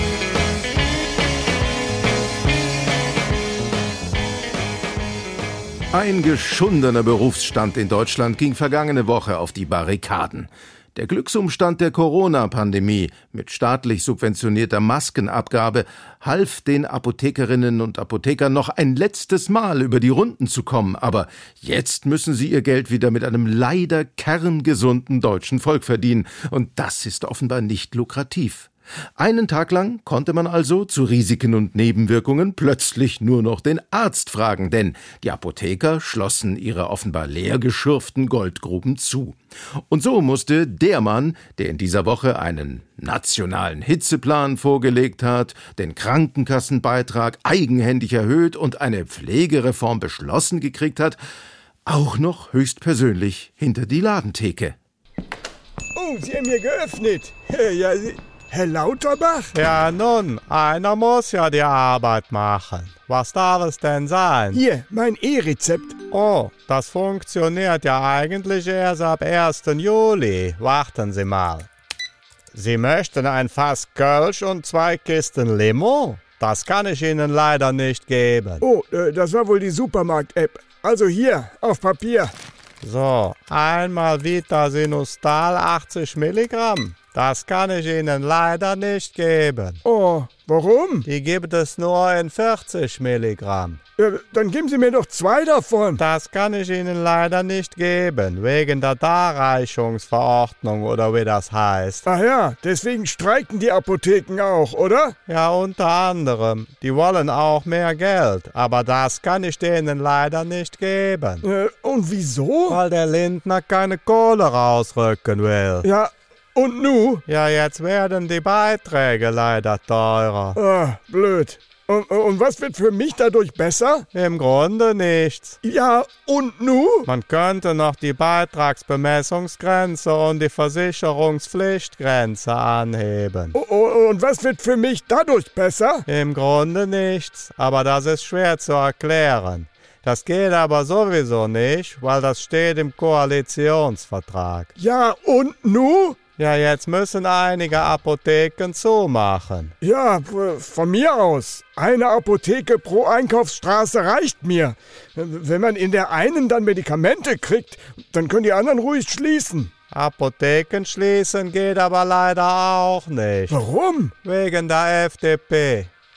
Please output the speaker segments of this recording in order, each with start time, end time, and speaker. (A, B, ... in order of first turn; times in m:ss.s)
0:05.9-0:39.4 A
0:39.9-0:51.2 A
0:51.8-0:54.8 A
0:55.9-0:59.5 B
0:59.5-1:04.6 C
1:04.5-1:06.1 B
1:06.1-1:11.7 C
1:12.5-1:18.6 C
1:18.6-1:22.3 B
1:22.8-1:29.8 C
1:29.8-1:31.0 B
1:31.0-1:33.8 C
1:34.0-1:36.0 B
1:36.0-1:42.0 C
1:42.1-1:45.1 B
1:45.3-1:51.4 C
1:51.4-1:52.8 B
1:52.7-1:55.8 C
1:55.8-1:57.2 B
1:57.3-2:00.6 C
2:00.5-2:04.0 B
2:04.1-2:05.6 C
2:05.6-2:07.1 B
2:07.1-2:13.5 C
2:13.5-2:16.0 B
2:16.1-2:24.7 C
2:24.8-2:26.2 B
2:26.4-2:29.7 C
2:29.8-2:39.7 B
2:39.9-2:43.6 C
2:43.5-2:44.1 B
2:44.2-2:45.9 C